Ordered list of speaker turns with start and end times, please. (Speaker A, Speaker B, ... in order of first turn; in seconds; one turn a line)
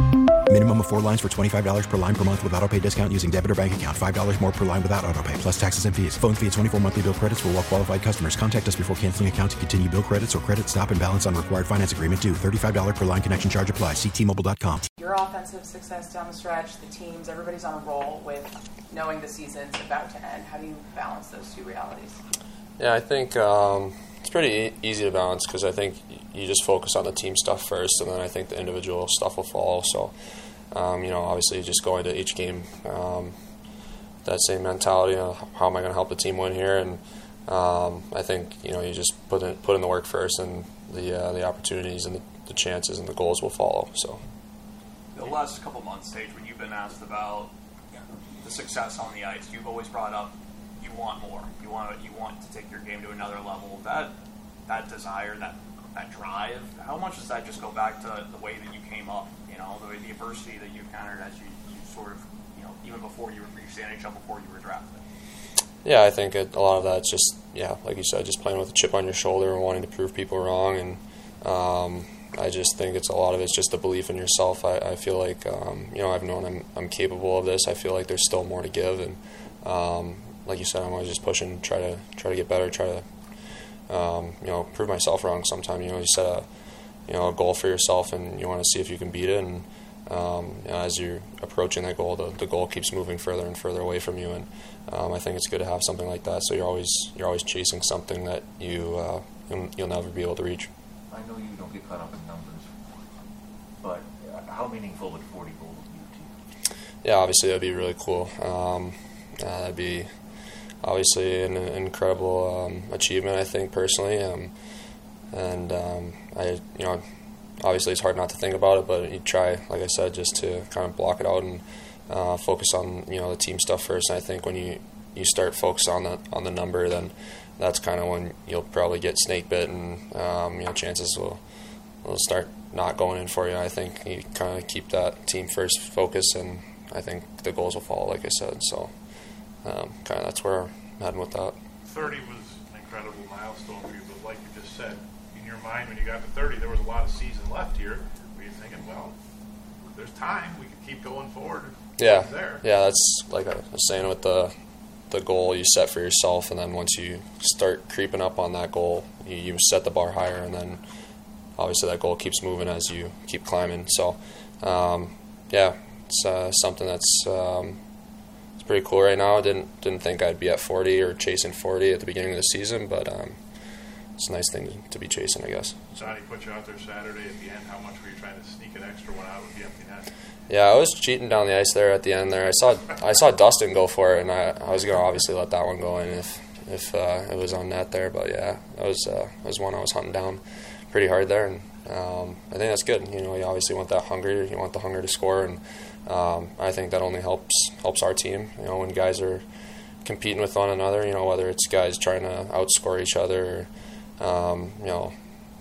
Speaker A: 0.5-14.9
Speaker B: 15.0-22.2
Speaker C: 22.8-30.1
Speaker C: 30.7-33.3
Speaker C: 34.2-44.2
Speaker D: 45.1-54.1
Speaker D: 54.7-65.0
Speaker C: 65.8-83.0
Speaker C: 83.9-86.4
Speaker C: 87.1-100.7
Speaker E: 101.1-102.6
Speaker E: 103.8-106.3
Speaker C: 107.0-110.1
Speaker C: 110.8-114.5
Speaker C: 115.3-117.0
Speaker C: 117.6-131.4
Speaker C: 132.0-138.9
Speaker C: 139.6-141.6
Speaker F: 141.8-149.1
Speaker F: 149.9-152.6
Speaker C: 152.0-154.5
Speaker C: 155.1-160.8
Speaker C: 161.6-167.8
Speaker C: 168.6-173.4
Speaker C: 174.2-175.8
Speaker F: 175.9-180.1
Speaker C: 180.5-199.4
Speaker C: 200.0-203.7
Speaker C: 204.2-205.1